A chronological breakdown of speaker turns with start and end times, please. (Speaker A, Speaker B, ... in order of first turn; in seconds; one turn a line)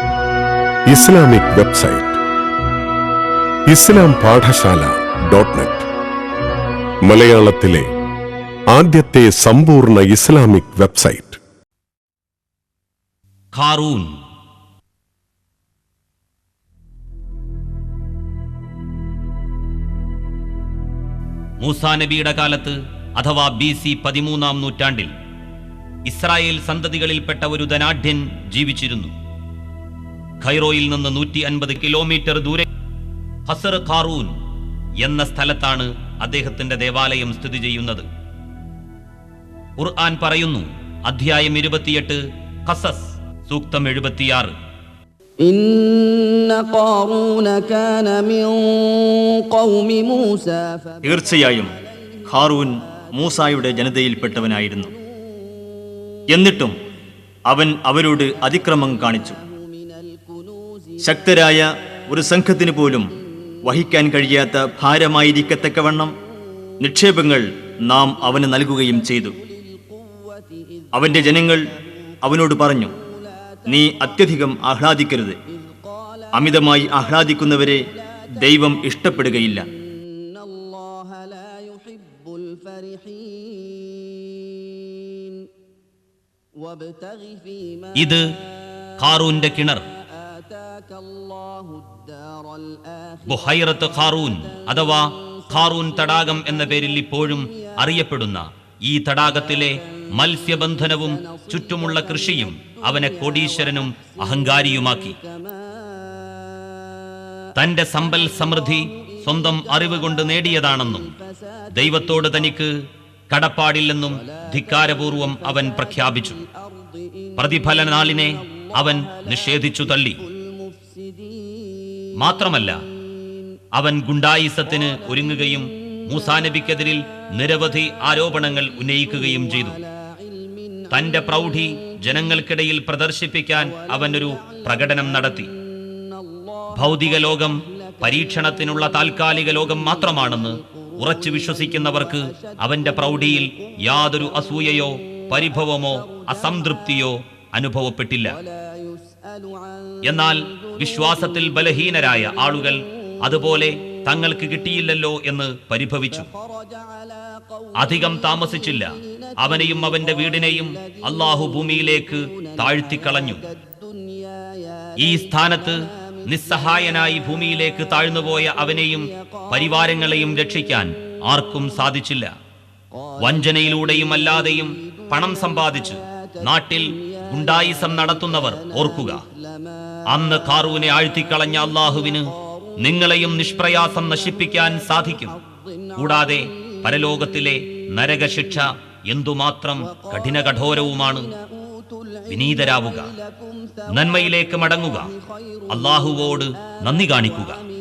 Speaker A: 0.9-2.2
Speaker A: 3.7-5.9
Speaker A: 7.0-7.9
Speaker A: 8.7-11.4
Speaker B: 13.5-14.2
Speaker B: 21.6-25.1
Speaker B: 26.1-29.1
Speaker B: 30.4-32.7
Speaker B: 33.5-34.4
Speaker B: 35.0-38.1
Speaker B: 39.8-44.5
Speaker C: 45.4-50.9
Speaker D: 51.0-51.8
Speaker D: 52.3-54.9
Speaker D: 56.3-56.8
Speaker D: 57.5-59.4
Speaker D: 61.0-66.1
Speaker D: 66.8-69.3
Speaker D: 70.9-71.7
Speaker D: 72.2-72.9
Speaker D: 73.7-75.4
Speaker D: 76.3-79.7
Speaker C: 80.6-83.9
Speaker C: 86.7-87.8
Speaker B: 88.0-88.2
Speaker B: 89.0-89.9
Speaker C: 90.7-93.2
Speaker B: 93.3-105.2
Speaker B: 107.6-111.1
Speaker B: 111.8-112.7
Speaker B: 113.3-116.4
Speaker B: 117.4-120.2
Speaker C: 120.5-120.7
Speaker C: 121.2-121.7
Speaker B: 122.2-122.8
Speaker B: 123.8-129.8
Speaker B: 130.9-135.5
Speaker B: 136.7-148.4
Speaker C: 148.7-149.9
Speaker B: 150.1-156.3
Speaker C: 156.6-157.1
Speaker B: 157.8-163.4
Speaker C: 163.7-164.2
Speaker B: 165.0-172.3
Speaker B: 173.2-179.2
Speaker B: 180.1-185.4
Speaker B: 185.9-191.3
Speaker C: 191.8-192.3
Speaker B: 192.3-193.2
Speaker B: 193.9-195.1
Speaker B: 195.7-197.6